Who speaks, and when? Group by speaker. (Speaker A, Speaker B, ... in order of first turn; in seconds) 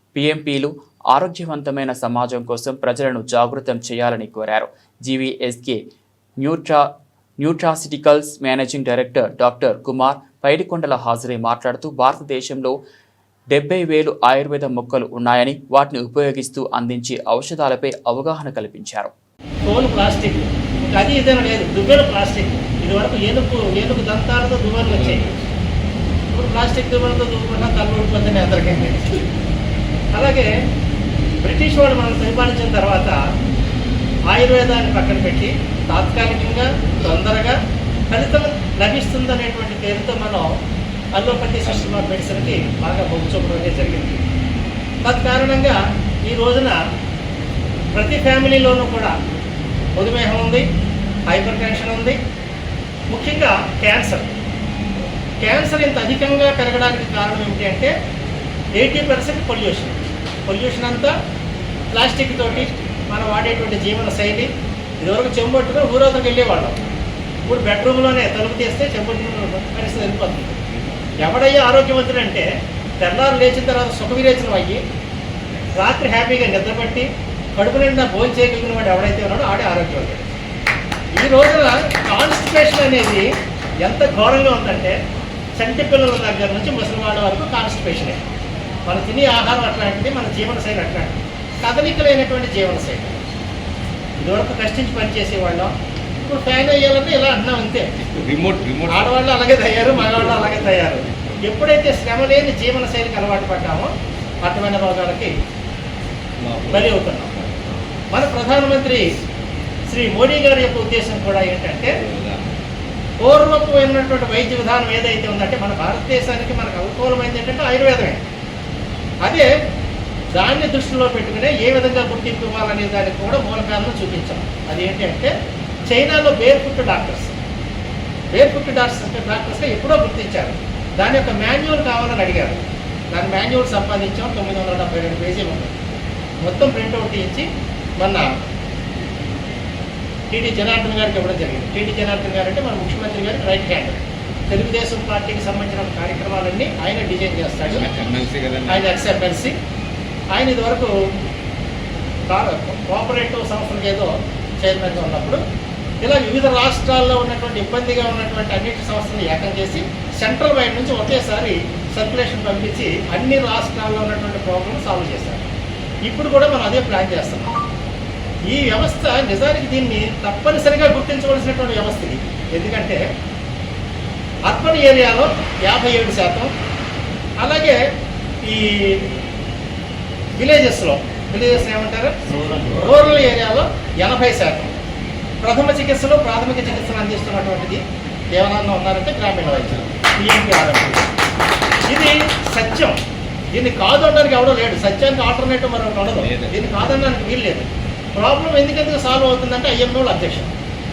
Speaker A: 0.1-5.8, 6.4-12.8, 13.5-19.1
Speaker B: 19.7-25.2, 26.3-29.2, 30.1-30.5, 31.4-33.2, 34.3-37.6, 38.1-40.5, 41.1-44.2, 45.0-46.8, 47.9-49.1, 50.0-50.6, 51.3-52.2, 53.1-54.3, 55.4-57.9, 58.8-61.1, 61.9-64.5, 65.0-66.8, 67.5-70.6, 71.2-72.5, 73.0-74.8, 75.8-77.1, 77.6-80.2, 81.2-83.3, 83.8-85.0, 85.6-88.2, 88.9-93.2, 94.2-97.9, 98.9-103.9, 104.4-105.3, 106.7-107.3, 108.1-109.1, 109.9-111.9, 113.2-118.2, 120.3-125.3, 125.9-127.4, 128.3-132.6, 133.1-135.7, 136.4-137.5, 138.0-138.3, 140.3-147.9, 148.7-149.5, 150.3-150.9, 152.3-155.4, 156.0-165.5, 166.1-167.6, 168.5-173.0, 174.5-176.5, 177.4-177.8, 178.4-179.0, 180.4-184.8, 185.4-191.1, 191.9-193.0, 193.5-200.5
Speaker C: 98.1-99.2, 106.4-107.5, 112.0-112.4, 147.7-148.9, 196.2-196.6